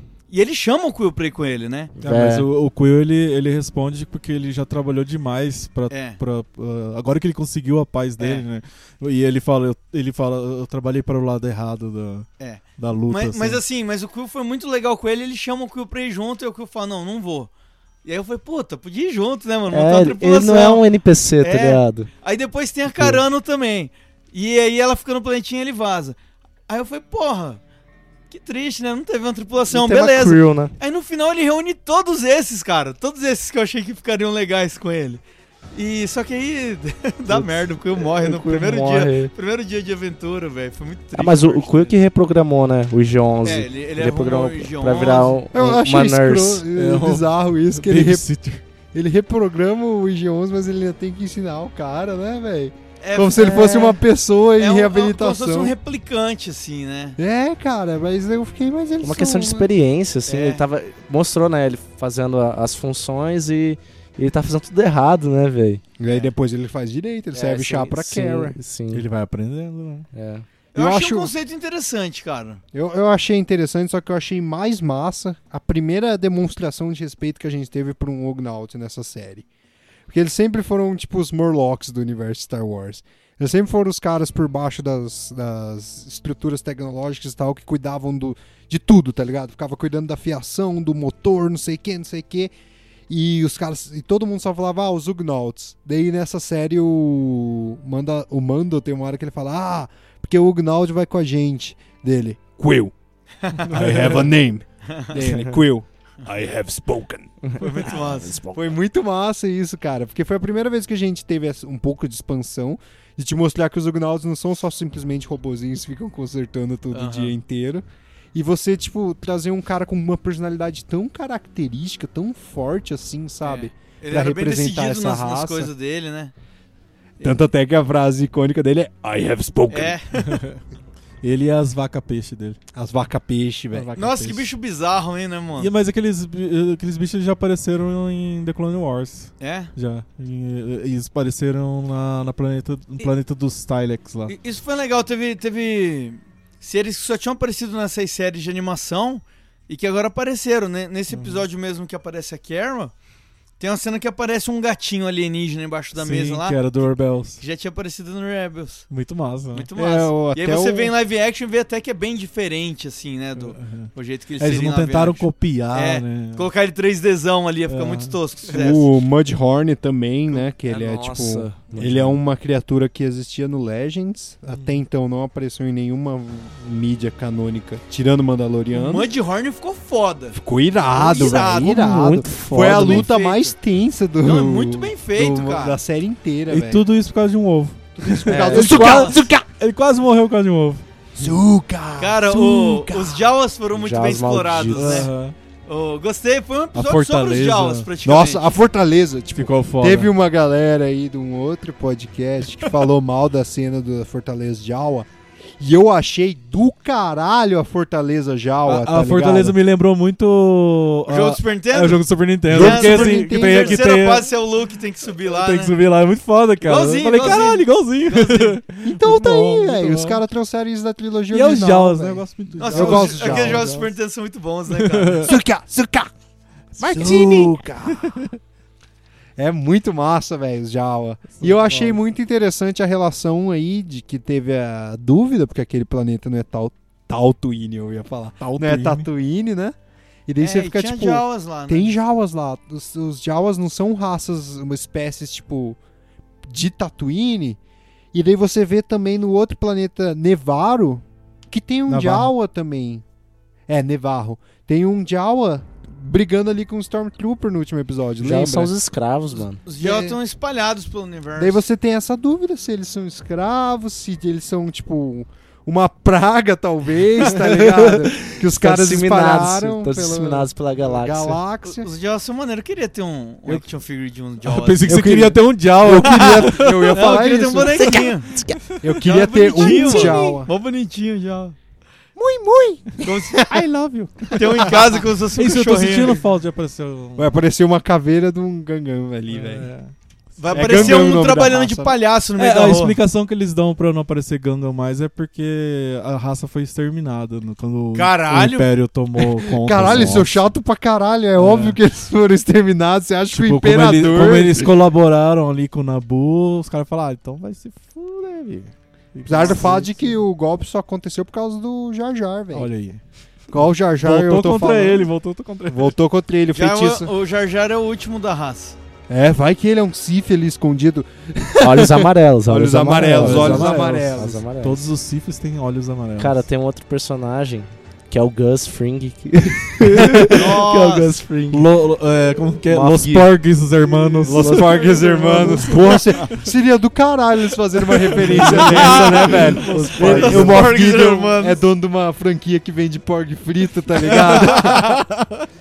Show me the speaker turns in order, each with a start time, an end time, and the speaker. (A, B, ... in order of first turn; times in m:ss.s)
0:00.3-0:01.9 A
0:02.0-0:02.5 B
0:02.0-0:12.3 C
0:05.9-0:06.2 A
0:08.2-0:08.4 A
0:12.4-0:17.5 A
0:12.8-0:13.6 C
0:18.0-0:20.8 A
0:19.7-0:22.1 B
0:21.4-0:26.2 A
0:23.0-0:23.2 B
0:26.7-0:27.6 A
0:28.3-0:35.2 A
0:29.7-0:30.7 B
0:35.7-0:42.0 A
0:37.3-0:39.3 B
0:41.2-0:46.7 B
0:43.4-0:45.4 A
0:45.5-0:48.2 D
0:46.7-0:48.6 C
0:48.9-0:55.8 D
0:53.0-0:53.8 A
0:54.6-0:57.2 A
0:57.2-0:59.7 D
0:59.0-1:05.8 B
1:00.3-1:00.6 A
1:06.0-1:08.6 D
1:07.3-1:09.1 B
1:08.9-1:10.1 C
1:10.1-1:10.5 B
1:10.8-1:11.3 D
1:10.8-1:12.6 A
1:12.7-1:19.4 D
1:20.1-1:32.5 D
1:33.1-1:42.9 D
1:43.6-1:47.4 D
1:43.7-1:44.3 C
1:44.9-1:45.2 A
1:45.2-1:45.6 B
1:47.4-1:48.8 B
1:47.6-1:48.4 A
1:48.5-2:05.7 D
1:56.9-1:57.4 A
2:03.4-2:06.3 A
2:07.2-2:10.0 D
2:09.7-2:10.4 A
2:10.2-2:10.6 C
2:11.2-2:12.6 C
2:12.8-2:13.9 D
2:13.7-2:14.5 C
2:14.0-2:15.7 A
2:15.6-2:24.4 C
2:19.4-2:19.7 A
2:24.3-2:32.9 A
2:31.1-2:31.5 C
2:33.6-2:36.6 A
2:36.0-2:37.4 C
2:37.4-2:38.9 A
2:38.9-2:39.7 C
2:39.5-2:48.9 A
2:39.8-2:40.9 D
2:43.4-2:46.5 C
2:47.7-2:48.2 C
2:48.5-2:59.1 D
2:50.4-2:52.2 B
2:58.7-3:00.4 A
3:00.3-3:06.8 D
3:00.9-3:01.8 A
3:01.5-3:03.1 B
3:02.6-3:03.5 A
3:04.2-3:05.8 A
3:06.5-3:10.8 C
3:08.0-3:09.5 D
3:08.3-3:09.1 B
3:08.7-3:09.1 A
3:11.2-3:13.2 D
3:12.0-3:15.1 A
3:13.7-3:15.1 B
3:14.7-3:15.4 C
3:15.7-3:18.4 A
3:16.7-3:17.9 C
3:18.0-3:25.1 D
3:19.4-3:20.1 C
3:25.6-3:29.6 D
3:28.7-3:34.3 C
3:31.1-3:35.8 A
3:32.5-3:34.0 D
3:35.2-3:40.2 C
3:36.6-3:38.6 A
3:38.8-3:43.7 D
3:41.3-3:43.9 C
3:42.6-3:45.4 A
3:44.7-3:45.3 C
3:45.2-3:46.1 D
3:46.8-3:48.3 C
3:46.8-3:48.3 D
3:49.4-3:59.8 D
3:51.4-3:52.0 C
3:58.4-3:59.1 C
4:00.3-4:05.8 D
4:00.4-4:02.0 A
4:06.5-4:07.6 D
4:08.1-4:13.0 D
4:11.9-4:12.3 C
4:13.7-4:18.7 D
4:18.2-4:19.6 B
4:19.6-4:21.6 A
4:19.8-4:20.2 D
4:21.4-4:31.9 D
4:27.8-4:31.4 B
4:31.6-4:35.0 A
4:34.4-4:37.2 C
4:34.9-4:38.1 D
4:36.0-4:38.3 A
4:37.6-4:38.6 B
4:38.8-4:40.5 D
4:39.0-4:41.6 A
4:39.6-4:40.2 C
4:42.2-4:43.7 D
4:43.0-4:43.5 A
4:43.4-4:44.8 C
4:44.3-4:46.2 A
4:44.4-4:44.8 D
4:45.4-4:47.3 C
4:47.2-4:49.7 D
4:49.3-4:49.9 C
4:50.4-4:53.0 A
4:50.4-4:51.2 C
4:50.5-4:52.0 D
4:52.4-5:00.4 C
4:57.9-4:58.7 A
4:59.4-5:04.7 D
5:01.4-5:01.8 C
5:03.3-5:10.2 C
5:09.3-5:12.7 D
5:12.5-5:13.0 C
5:13.5-5:15.1 D
5:14.0-5:15.9 C
5:15.7-5:17.1 D
5:16.5-5:18.8 A
5:19.1-5:24.4 D
5:21.6-5:24.8 B
5:23.0-5:26.4 C
5:26.2-5:31.7 B
5:29.8-5:30.4 C
5:30.3-5:31.2 A
5:31.5-5:36.4 C
5:32.7-5:35.9 B
5:34.2-5:45.0 D
5:37.9-5:40.8 C
5:38.3-5:40.7 B
5:40.0-5:41.6 A
5:44.1-5:45.2 C